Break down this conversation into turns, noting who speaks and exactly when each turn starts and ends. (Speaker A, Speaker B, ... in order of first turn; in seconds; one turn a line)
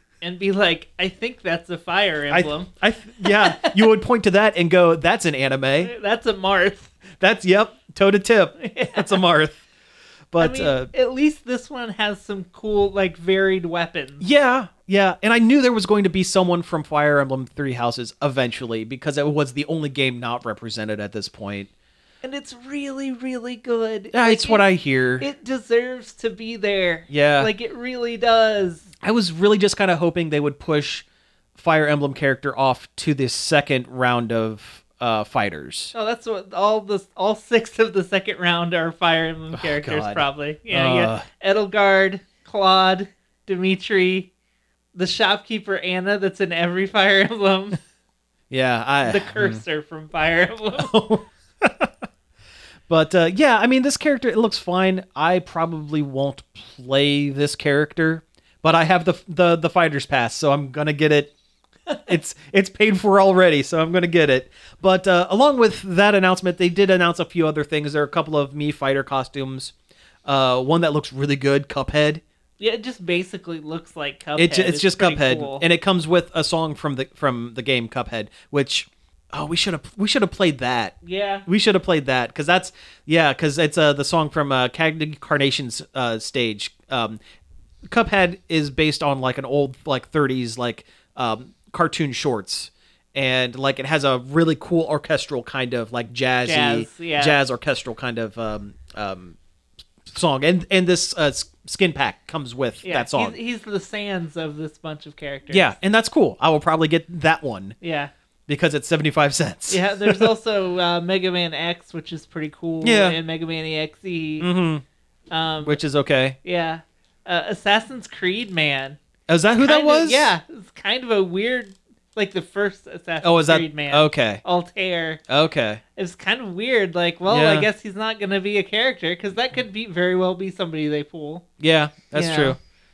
Speaker A: 0.2-3.8
Speaker B: 2.3-5.9
Speaker A: 5.8-7.0
Speaker B: 7.2-9.6
Speaker A: 8.6-9.2
Speaker B: 10.3-10.9
Speaker A: 10.4-14.2
Speaker B: 14.2-21.7
Speaker A: 22.2-24.6
Speaker B: 24.1-25.2
Speaker A: 25.2-28.9
Speaker B: 27.1-27.5
Speaker B: 29.0-35.9
Speaker A: 35.9-44.3
Speaker B: 39.5-41.2
Speaker A: 44.9-47.8
Speaker B: 48.5-49.6
Speaker A: 49.0-50.9
Speaker B: 50.8-51.9
Speaker B: 52.9-61.3
Speaker B: 62.0-69.7
Speaker B: 70.2-72.2
Speaker A: 72.6-75.6
Speaker B: 74.3-87.2
Speaker A: 81.0-81.5
Speaker B: 87.9-99.3
Speaker A: 96.4-97.4
Speaker B: 100.0-103.4
Speaker A: 102.8-105.8
Speaker B: 105.5-107.8
Speaker A: 107.8-108.1
Speaker B: 108.5-110.3
Speaker A: 109.7-114.5
Speaker B: 112.8-113.2
Speaker B: 114.4-114.8
Speaker A: 115.3-115.8
Speaker B: 115.6-116.4
Speaker A: 116.4-119.0
Speaker B: 119.3-120.3
Speaker A: 119.6-125.2
Speaker B: 123.2-124.4
Speaker B: 125.3-125.8
Speaker A: 126.0-131.4
Speaker B: 127.3-127.7
Speaker B: 131.6-132.6
Speaker A: 132.1-132.6